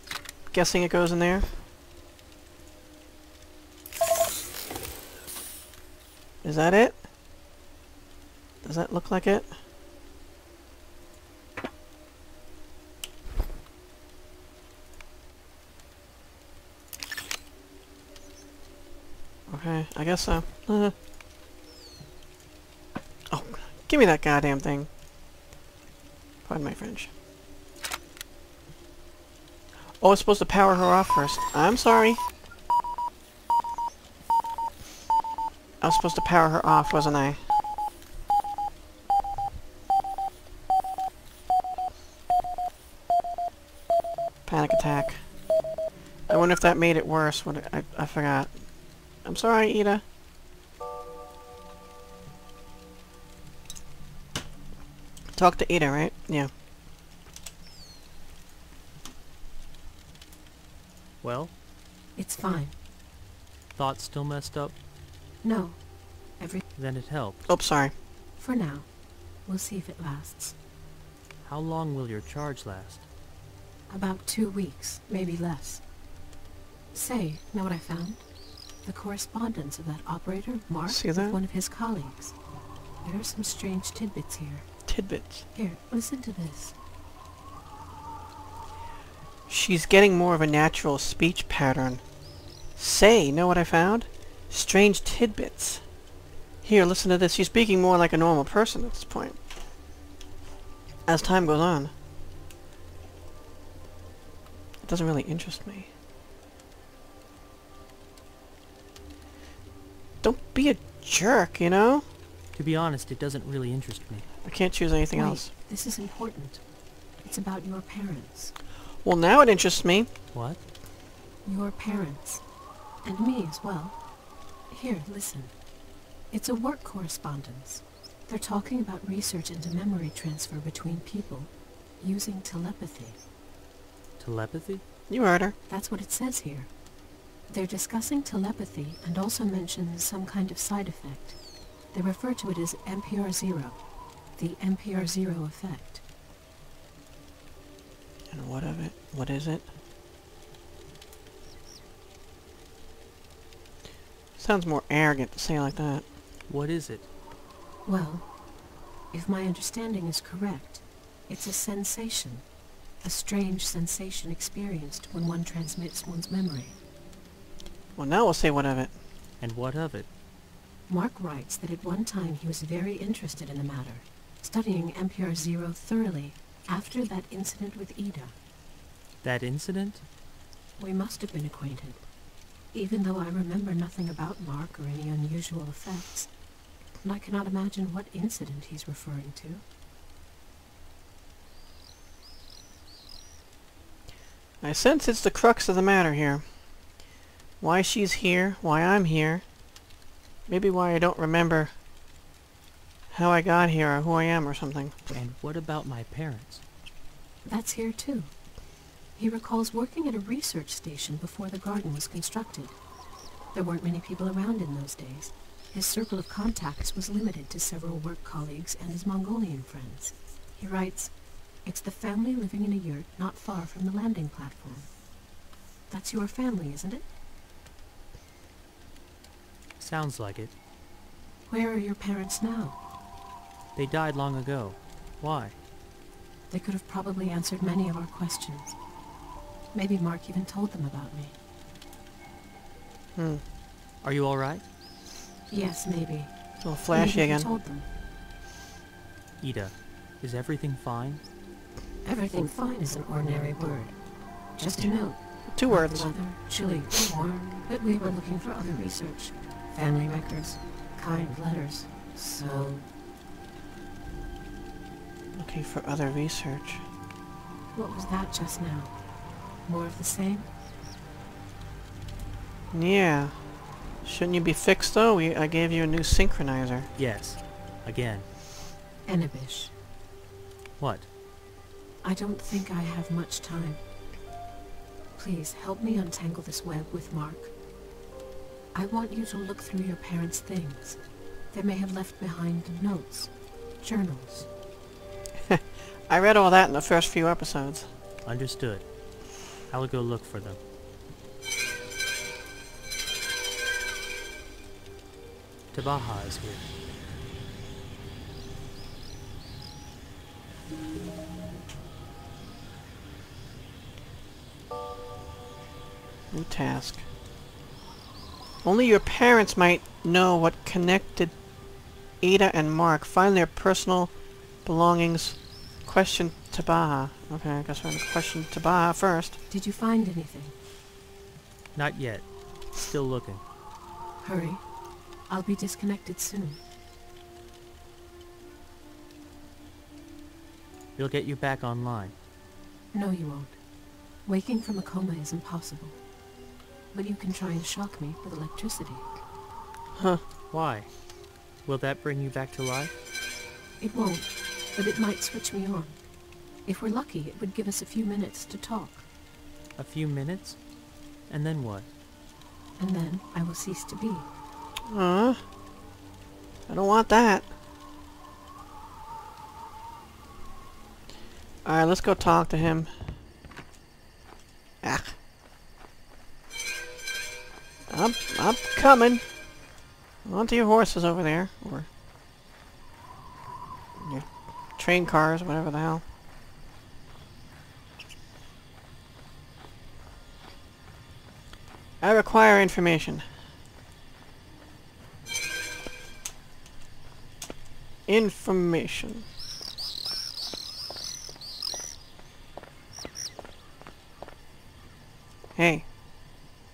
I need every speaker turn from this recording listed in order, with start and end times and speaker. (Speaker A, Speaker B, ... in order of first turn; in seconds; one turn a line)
Speaker A: 0.5-1.5
Speaker A: 6.4-7.0
Speaker A: 8.6-9.5
Speaker A: 19.5-20.9
Speaker A: 23.3-24.9
Speaker A: 26.4-27.1
Speaker A: 30.0-32.2
Speaker A: 35.8-37.4
Speaker A: 44.5-45.2
Speaker A: 46.3-48.5
Speaker A: 49.2-50.0
Speaker A: 55.3-56.5
Speaker B: 61.2-61.5
Speaker C: 62.2-62.7
Speaker B: 63.7-64.8
Speaker C: 65.4-65.8
Speaker B: 66.8-67.4
Speaker A: 67.5-67.9
Speaker C: 68.4-68.9
Speaker C: 69.5-70.5
Speaker B: 71.4-73.1
Speaker C: 73.9-75.8
Speaker C: 76.9-78.2
Speaker C: 78.8-82.3
Speaker A: 80.9-81.4
Speaker C: 83.0-84.7
Speaker A: 84.9-85.5
Speaker C: 85.5-86.8
Speaker A: 89.5-92.0
Speaker A: 92.8-95.8
Speaker A: 96.6-99.4
Speaker A: 101.1-101.9
Speaker A: 104.8-105.9
Speaker A: 110.2-112.0
Speaker B: 112.5-114.3
Speaker A: 114.4-115.5
Speaker C: 115.1-116.6
Speaker C: 117.2-118.5
Speaker A: 119.0-120.1
Speaker B: 120.3-120.6
Speaker C: 121.5-122.4
Speaker C: 123.0-124.0
Speaker C: 124.7-125.5
Speaker C: 126.3-133.2
Speaker B: 134.2-134.8
Speaker A: 135.1-135.6
Speaker C: 135.7-136.7
Speaker C: 137.5-141.4
Speaker C: 141.9-143.8
Speaker C: 144.4-146.0
Speaker A: 148.3-149.7
Speaker A: 154.4-156.1
Speaker B: 156.5-157.1
Speaker C: 157.8-158.2
Speaker C: 159.1-162.4
Speaker C: 163.0-166.8
Speaker A: 168.0-168.9
Speaker B: 169.4-170.1
Speaker C: 170.9-178.3
Speaker B: 179.2-180.0
Speaker C: 180.8-182.0
Speaker C: 182.7-186.3
Speaker C: 187.0-189.6
Speaker A: 194.6-196.5
Speaker A: 197.6-199.4
Speaker A: 200.5-201.7
Speaker A: 203.1-205.0
Speaker B: 205.1-206.6
Speaker C: 207.4-208.3
Speaker C: 209.2-212.8
Speaker C: 213.5-221.1
Speaker C: 221.6-224.9
Speaker C: 225.9-227.1
Speaker B: 229.8-230.5
Speaker C: 231.5-232.8
Speaker B: 233.7-235.6
Speaker C: 236.5-238.7
Speaker C: 239.7-241.3
Speaker A: 243.2-243.4
Speaker B: 244.0-244.6
Speaker C: 245.5-246.3
Speaker A: 246.6-247.5
Speaker C: 246.9-247.9
Speaker B: 249.4-251.2
Speaker C: 252.1-253.9
Speaker C: 254.6-262.9
Speaker A: 255.5-256.1
Speaker A: 265.4-266.8
Speaker C: 267.7-269.0
Speaker C: 269.6-270.5
Speaker A: 272.7-273.4
Speaker A: 274.0-276.9
Speaker B: 277.0-278.3
Speaker C: 279.1-279.7
Speaker B: 280.8-281.1
Speaker C: 282.0-283.8
Speaker C: 285.2-287.5
Speaker C: 288.7-291.0
Speaker C: 291.5-293.3
Speaker C: 293.8-294.5
Speaker A: 295.4-297.9
Speaker B: 298.2-298.9
Speaker B: 299.7-300.6
Speaker B: 305.7-306.7
Speaker A: 316.3-317.0
Speaker A: 318.6-321.3
Speaker A: 322.2-324.1
Speaker A: 324.6-329.4
Speaker C: 329.5-330.5
Speaker B: 331.7-333.4
Speaker C: 334.2-334.6
Speaker C: 335.3-336.6
Speaker B: 341.0-342.1
Speaker C: 342.9-343.6
Speaker C: 344.2-346.0
Speaker C: 346.9-349.1
Speaker A: 350.0-350.2
Speaker B: 350.5-350.9
Speaker B: 351.6-353.0
Speaker C: 353.8-356.0
Speaker C: 356.6-359.1
Speaker B: 359.8-360.6
Speaker B: 361.3-361.9
Speaker C: 362.8-364.3
Speaker A: 364.9-365.4
Speaker A: 366.7-367.5
Speaker A: 371.6-372.9
Speaker A: 374.8-375.2
Speaker A: 377.9-379.2
Speaker A: 380.2-381.9
Speaker A: 384.0-386.0
Speaker A: 392.0-393.3
Speaker A: 398.1-399.3
Speaker A: 405.6-405.9